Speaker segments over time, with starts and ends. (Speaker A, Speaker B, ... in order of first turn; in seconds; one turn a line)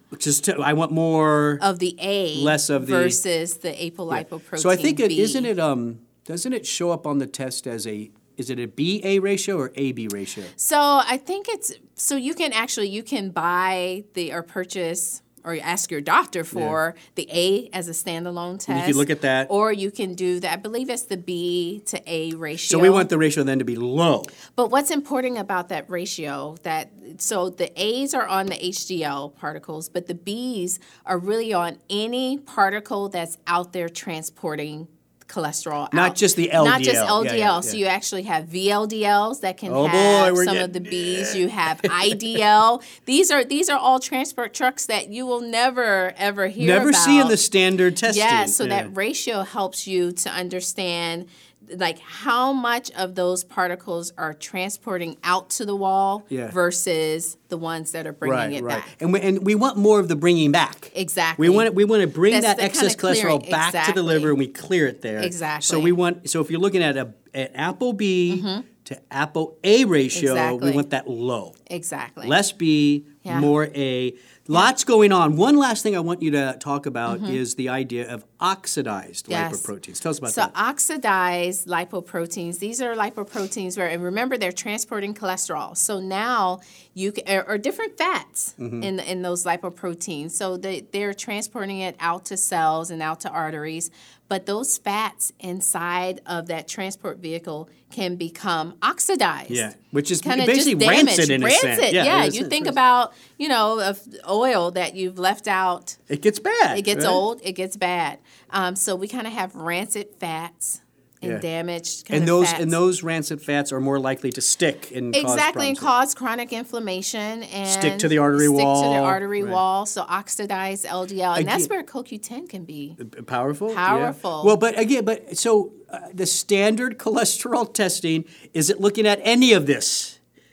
Speaker A: 0.1-1.6
Speaker B: 1.6-5.5
Speaker A: 2.3-3.2
Speaker A: 4.1-10.5
Speaker B: 10.6-23.1
Speaker A: 16.5-16.8
Speaker A: 18.7-19.5
Speaker A: 22.7-24.3
Speaker B: 24.6-47.4
Speaker A: 35.9-37.8
Speaker A: 39.7-42.4
Speaker A: 46.6-48.9
Speaker B: 48.0-58.9
Speaker A: 56.3-56.5
Speaker A: 58.2-71.5
Speaker B: 60.9-61.7
Speaker B: 62.3-64.4
Speaker B: 65.2-66.0
Speaker B: 68.3-68.7
Speaker B: 70.1-70.9
Speaker B: 71.7-72.4
Speaker A: 72.2-80.5
Speaker B: 73.2-73.5
Speaker B: 77.1-77.4
Speaker B: 79.3-79.7
Speaker B: 80.2-99.7
Speaker A: 88.6-88.9
Speaker A: 99.5-102.8
Speaker B: 100.2-106.0
Speaker A: 106.1-107.2
Speaker B: 106.7-112.8
Speaker A: 112.1-115.9
Speaker B: 115.1-123.0
Speaker A: 117.6-119.6
Speaker A: 121.3-121.7
Speaker A: 123.0-130.2
Speaker B: 123.7-124.6